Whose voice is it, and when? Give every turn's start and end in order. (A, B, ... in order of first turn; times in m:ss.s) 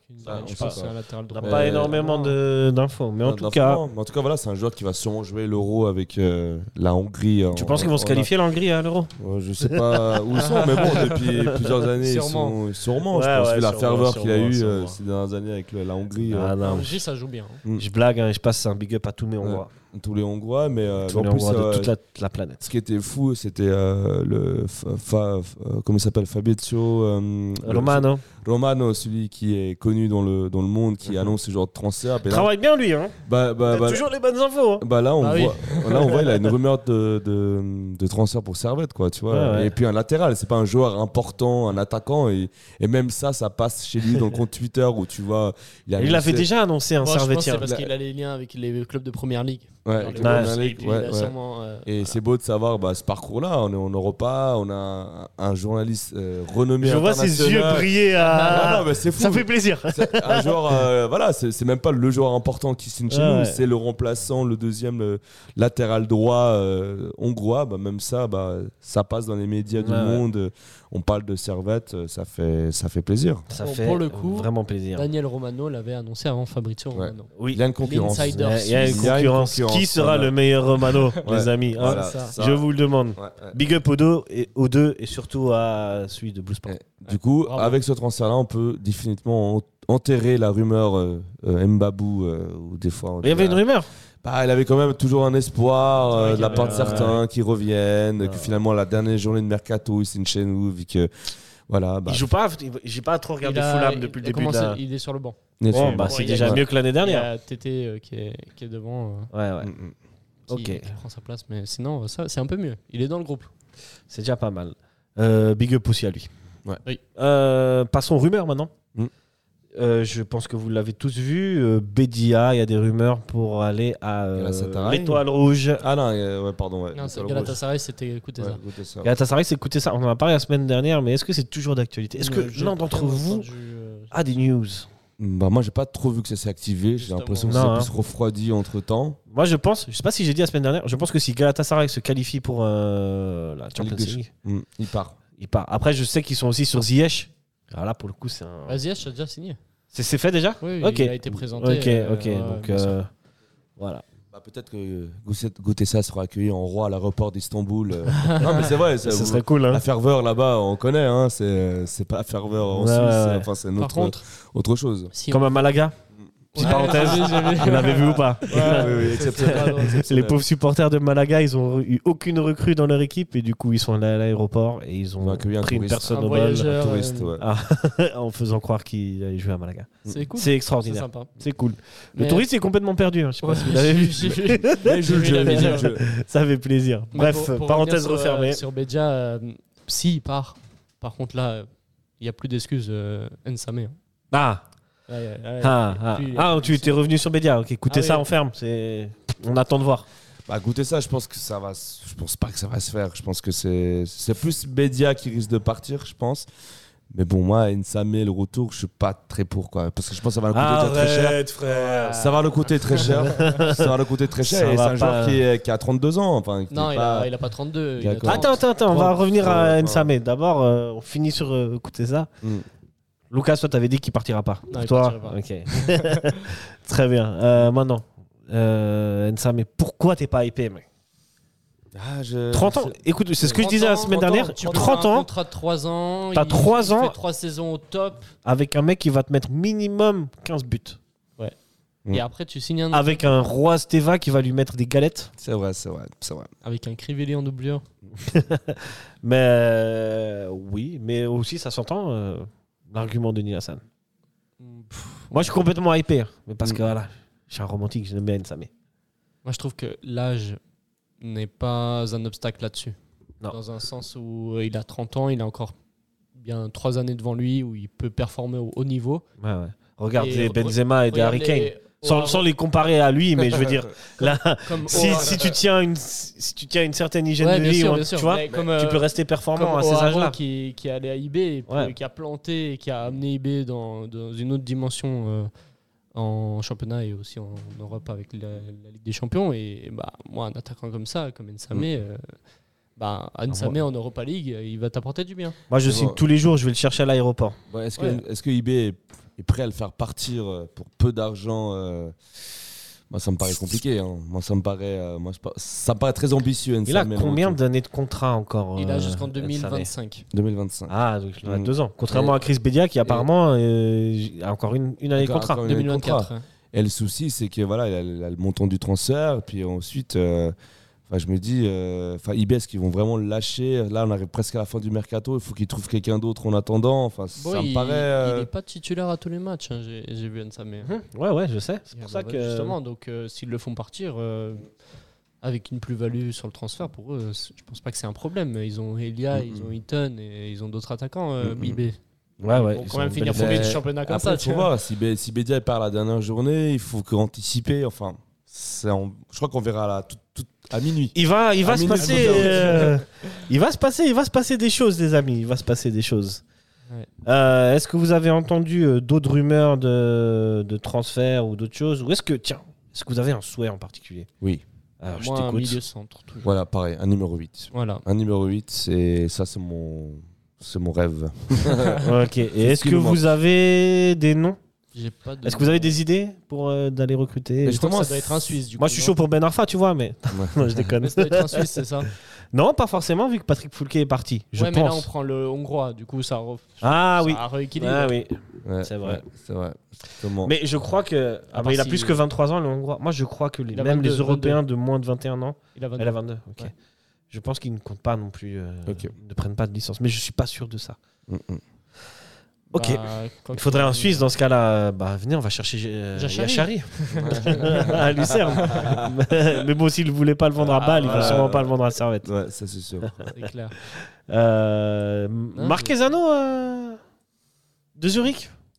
0:00.1-0:02.4 A
0:00.2-0:02.0 B
0:00.2-0:03.8 C
0:03.2-0:08.3 B
0:07.5-0:10.2 C
0:09.2-0:16.6 B
0:10.4-0:12.6 A
0:13.0-0:15.0 C
0:16.3-0:17.0 C
0:16.6-0:17.6 A
0:17.7-0:19.7 C
0:19.4-0:21.9 B
0:21.1-0:22.7 C
0:22.6-0:32.5 B
0:27.6-0:28.2 C
0:32.2-0:34.9 C
0:33.2-0:34.1 B
0:34.8-0:46.5 B
0:35.2-0:36.4 A
0:39.3-0:39.7 C
0:46.0-0:47.7 C
0:47.0-0:52.2 A
0:47.6-0:47.9 B
0:49.9-0:51.3 B
0:50.2-0:50.6 C
0:51.8-1:13.5 B
0:56.8-1:00.8 C
0:58.2-0:58.7 A
1:03.1-1:03.6 C
1:09.8-1:10.3 C
1:13.5-1:15.1 C
1:13.6-1:19.2 A
1:16.9-1:20.3 B
1:17.4-1:26.8 C
1:21.2-1:23.6 B
1:21.8-1:22.4 A
1:26.7-1:33.6 B
1:27.0-1:27.8 A
1:33.2-1:33.9 C
1:34.2-1:42.3 B
1:36.1-1:37.2 A
1:36.2-1:37.2 C
1:38.2-1:38.6 C
1:42.1-1:44.8 C
1:43.4-1:45.4 A
1:45.6-1:46.6 B
1:45.7-1:47.3 C
1:46.0-1:49.3 A
1:49.3-1:49.7 C
1:49.6-1:49.9 B
1:50.5-1:53.5 A
1:50.5-1:51.0 C
1:54.1-1:56.3 C
1:57.2-1:58.7 C
1:59.8-2:05.8 C
2:04.4-2:05.2 B
2:05.8-2:07.6 B
2:06.9-2:08.6 A
2:08.4-2:09.2 B
2:09.0-2:13.5 C
2:12.2-2:14.4 A
2:14.1-2:14.9 C
2:15.2-2:19.2 B
2:17.0-2:17.8 A
2:17.5-2:17.9 C
2:19.3-2:24.3 C
2:23.8-2:25.2 B
2:25.4-2:28.8 C
2:28.7-2:29.6 A
2:29.9-2:33.1 C
2:30.6-2:33.0 A
2:33.8-2:34.0 C
2:34.3-2:45.1 B
2:38.2-2:38.7 A
2:39.0-2:39.8 C
2:42.7-2:43.5 C
2:43.8-2:44.2 A
2:45.1-2:45.5 A
2:45.3-2:45.9 C
2:46.5-2:50.4 B
2:46.6-2:50.1 A
2:46.6-2:56.7 C
2:55.2-2:57.4 B
2:56.0-2:57.4 A
2:57.4-3:08.6 C
3:00.1-3:01.3 A
3:02.1-3:02.5 A
3:03.4-3:05.9 A
3:04.8-3:06.0 B
3:07.1-3:11.7 A
3:12.2-3:14.0 A
3:14.3-3:14.6 C
3:15.1-3:17.0 A
3:15.6-3:20.1 C
3:17.9-3:18.3 A
3:20.5-3:26.5 B
3:27.1-3:31.4 B
3:30.5-3:32.4 C
3:31.7-3:33.5 A
3:32.1-3:37.3 B
3:33.0-3:35.4 C
3:36.7-3:38.7 A
3:38.0-3:40.1 B
3:38.2-3:42.3 C
3:43.3-3:50.8 C
3:44.7-3:46.4 A
3:51.9-3:53.7 B
3:52.5-3:55.3 C
3:53.4-3:58.3 A
3:54.7-3:55.0 B
3:56.3-3:57.2 C
3:58.4-4:01.0 C
4:02.1-4:03.3 A
4:02.9-4:05.3 C
4:05.4-4:06.5 B
4:06.6-4:07.8 A
4:08.2-4:13.8 C
4:14.6-4:15.6 A
4:15.3-4:18.7 C
4:19.4-4:20.6 A
4:21.2-4:23.0 A
4:23.5-4:25.8 A
4:26.4-4:29.2 A
4:29.4-4:40.4 C
4:30.2-4:32.5 A
4:34.6-4:35.5 A
4:34.9-4:35.5 B
4:37.4-4:45.5 A
4:41.7-4:41.9 C
4:46.2-4:52.3 A
4:53.0-4:55.6 A
4:53.5-4:53.8 C
4:55.7-4:57.6 C
4:55.8-4:56.2 B
4:57.7-5:02.2 B
4:58.0-4:58.2 A
5:03.1-5:07.6 B
5:06.9-5:09.9 C
5:08.8-5:10.3 A
5:10.3-5:10.9 B
5:10.9-5:15.6 C
5:11.4-5:12.4 B
5:13.0-5:13.3 B
5:15.2-5:20.6 B
5:15.6-5:16.4 A
5:21.1-5:28.5 B
5:27.4-5:30.9 A
5:30.8-5:32.8 C
5:31.9-5:34.7 A
5:35.4-5:42.0 A
5:39.3-5:39.7 B
5:41.4-5:41.8 B
5:42.4-5:43.8 C
5:42.5-5:44.7 A
5:43.3-5:53.0 B
5:51.1-5:56.4 C
5:52.0-5:53.4 A
5:57.2-6:04.3 C
6:05.0-6:05.8 C
6:05.1-6:06.5 A
6:06.4-6:13.3 B
6:07.7-6:08.0 A
6:12.0-6:14.6 C
6:14.9-6:16.0 A
6:15.4-6:17.9 C
6:17.6-6:18.5 B
6:17.6-6:19.2 A
6:18.8-6:21.8 C
6:20.3-6:20.8 B
6:20.8-6:22.1 A
6:22.5-6:25.1 C
6:24.5-6:28.2 A
6:26.8-6:29.2 C
6:28.6-6:30.6 B
6:30.4-6:36.7 C
6:31.5-6:32.2 A
6:33.7-6:34.6 A
6:35.8-6:36.7 A
6:37.3-6:41.0 C
6:38.9-6:39.1 B
6:41.3-6:41.6 B
6:42.7-6:44.3 A
6:42.7-6:52.3 C
6:46.2-6:48.0 A
6:47.2-6:49.2 B
6:48.5-6:48.9 A
6:50.6-6:51.6 A
6:51.0-6:53.3 B
6:53.3-6:53.8 A
6:53.9-6:57.0 C
6:55.5-6:56.0 A
6:58.0-6:58.5 C